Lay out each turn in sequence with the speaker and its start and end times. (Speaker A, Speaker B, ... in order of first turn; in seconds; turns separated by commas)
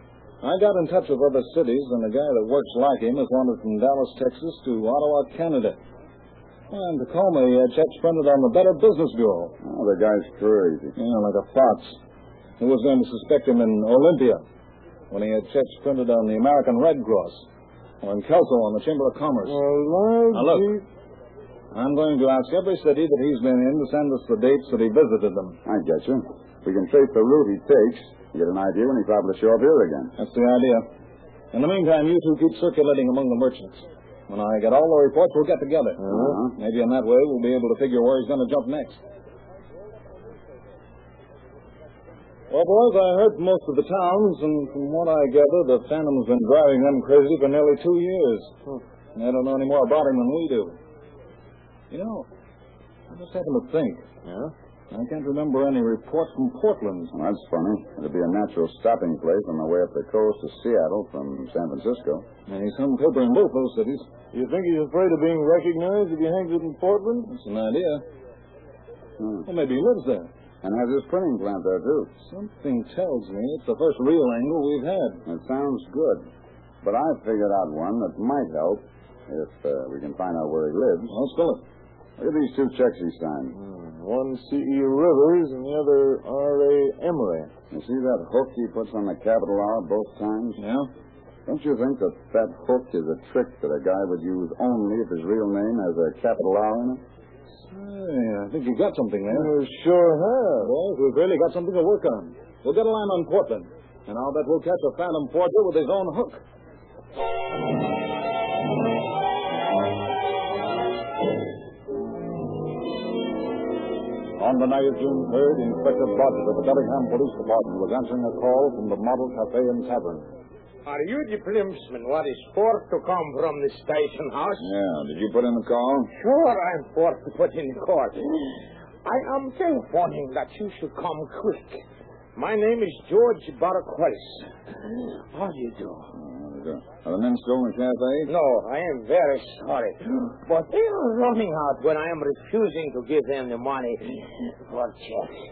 Speaker A: 0.4-5.8, Speaker A: 6.7-9.5, Speaker B: 9.6-10.9, Speaker A: 10.9-12.0, Speaker A: 12.6-14.4, Speaker A: 15.1-17.4, Speaker A: 18.0-19.6, Speaker C: 19.4-20.8, Speaker A: 20.3-20.7, Speaker A: 21.7-25.6, Speaker B: 25.6-30.1, Speaker A: 30.2-30.9, Speaker A: 31.5-39.0, Speaker C: 36.0-36.4, Speaker B: 36.1-36.5, Speaker A: 42.5-48.5, Speaker A: 49.1-50.8, Speaker A: 51.9-52.2, Speaker A: 53.1-54.0, Speaker C: 54.2-54.5, Speaker A: 54.9-57.1, Speaker B: 57.1-62.3, Speaker A: 62.5-64.1, Speaker C: 64.3-67.3, Speaker A: 67.2-68.0, Speaker B: 69.2-69.5, Speaker A: 69.4-70.3, Speaker B: 70.6-72.1, Speaker A: 72.3-75.2, Speaker B: 75.2-76.3, Speaker B: 76.8-81.1, Speaker A: 81.1-81.6, Speaker B: 82.2-83.6, Speaker C: 83.5-87.5, Speaker B: 87.7-90.6, Speaker A: 90.6-90.9, Speaker B: 91.5-97.0, Speaker A: 97.7-99.5, Speaker C: 99.3-100.7, Speaker A: 100.6-106.4, Speaker D: 114.4-120.3, Speaker E: 120.8-124.7, Speaker B: 124.6-126.1, Speaker E: 126.1-128.5, Speaker E: 129.0-131.8, Speaker E: 132.3-136.1, Speaker B: 136.1-138.3, Speaker E: 138.3-145.4